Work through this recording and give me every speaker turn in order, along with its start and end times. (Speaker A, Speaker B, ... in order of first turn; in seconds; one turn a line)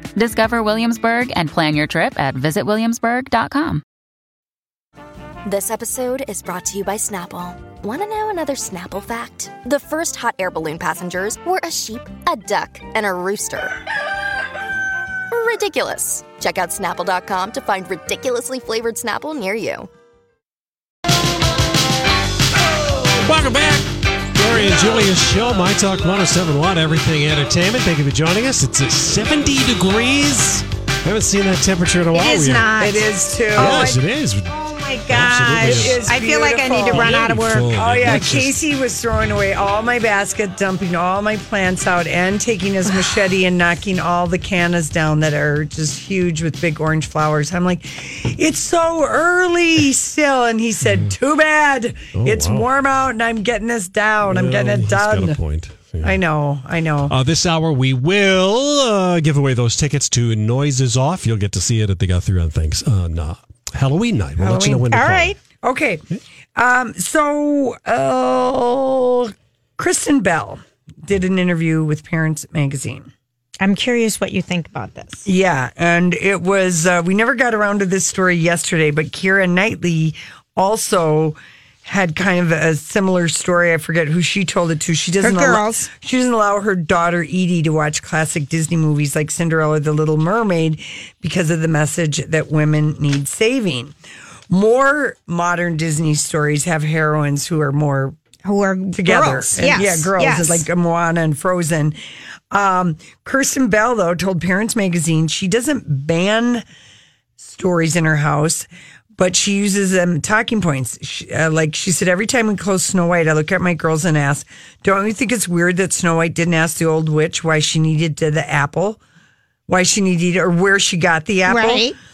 Speaker A: 0.2-3.8
Speaker B: 5.5-13.8
Speaker B: 15.3-19.9
Speaker C: 23.2-32.7
Speaker D: 32.1-37.7
Speaker E: 32.8-34.0
Speaker C: 33.5-34.5
Speaker C: 35.1-36.0
Speaker E: 35.2-55.4
Speaker C: 36.9-38.5
Speaker C: 52.1-52.7
Speaker C: 54.2-56.2
Speaker E: 56.0-57.1
Speaker C: 57.1-65.3
Speaker E: 64.4-64.9
Speaker D: 64.9-65.4
Speaker E: 65.6-66.0
Speaker E: 66.5-73.1
Speaker D: 73.6-75.2
Speaker E: 75.2-93.9
Speaker D: 85.2-85.9
Speaker E: 94.5-98.2
Speaker D: 98.4-100.7
Speaker E: 98.9-102.0
Speaker E: 102.5-106.6
Speaker E: 107.4-119.0
Speaker E: 119.7-121.8
Speaker D: 121.5-121.9